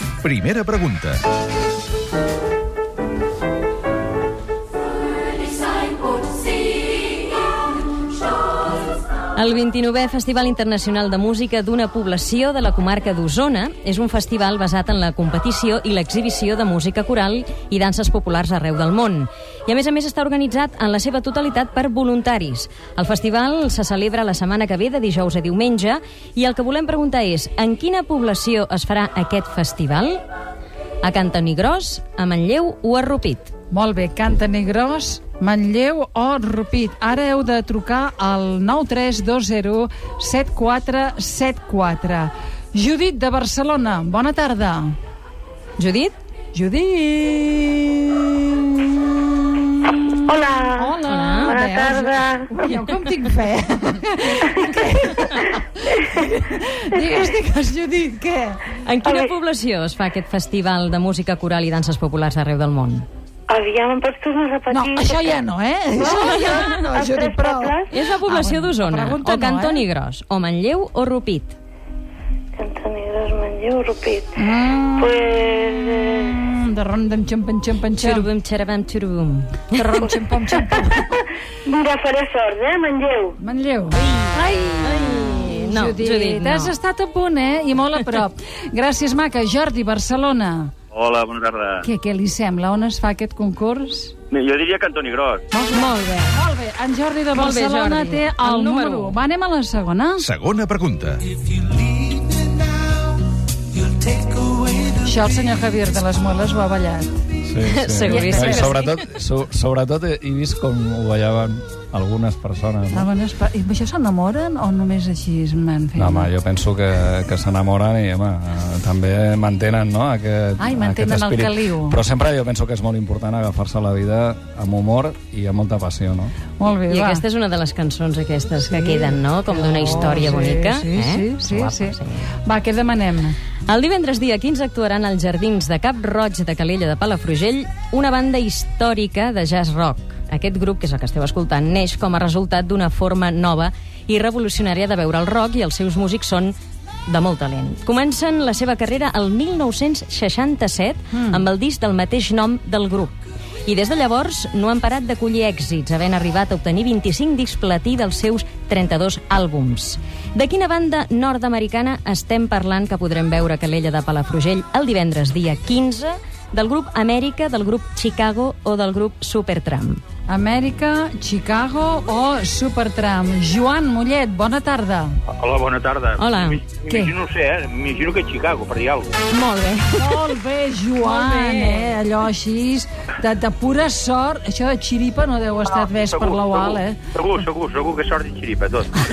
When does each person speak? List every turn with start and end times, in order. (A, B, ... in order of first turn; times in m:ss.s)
0:00.2-0:01.2 A
0:09.3-0:30.2 B
0:31.0-0:33.5 B
0:33.7-0:44.9 C
0:45.8-0:46.1 B
0:46.5-0:58.8 C
0:50.2-0:50.9 D
0:51.0-0:51.6 B
0:51.5-0:52.6 D
0:58.8-1:03.0 B
1:03.5-1:05.1 D
1:04.7-1:09.8 C
1:06.2-1:06.8 B
1:06.9-1:07.8 D
1:07.9-1:11.6 B
1:12.6-1:14.3 D
1:14.4-1:15.2 C
1:15.0-1:16.3 D
1:16.2-1:18.3 C
1:17.9-1:20.0 B
1:19.7-1:21.2 C
1:21.6-1:23.4 D
1:23.4-1:30.7 C
1:24.0-1:26.7 B
1:30.9-1:31.8 E
1:31.8-1:34.1 C
1:34.3-1:35.4 E
1:35.5-1:40.2 C
1:35.7-1:36.3 B
1:37.3-1:39.2 B
1:40.2-1:41.2 A
1:45.0-1:47.2 C
1:47.4-1:53.1 F
1:47.7-1:49.0 B
1:48.1-1:48.7 C
1:52.9-1:56.3 C
1:56.0-2:06.3 F
2:00.6-2:02.0 C
2:06.6-2:07.2 C
2:06.9-2:12.2 B
2:08.7-2:13.4 C
2:13.7-2:26.5 B
2:27.1-2:50.0 B
2:50.3-2:55.1 C
2:55.3-2:59.1 E
2:56.2-2:56.7 B
2:56.8-2:57.2 C
2:59.3-3:00.3 B
3:00.0-3:07.0 C
3:01.0-3:01.9 B
3:07.1-3:08.9 E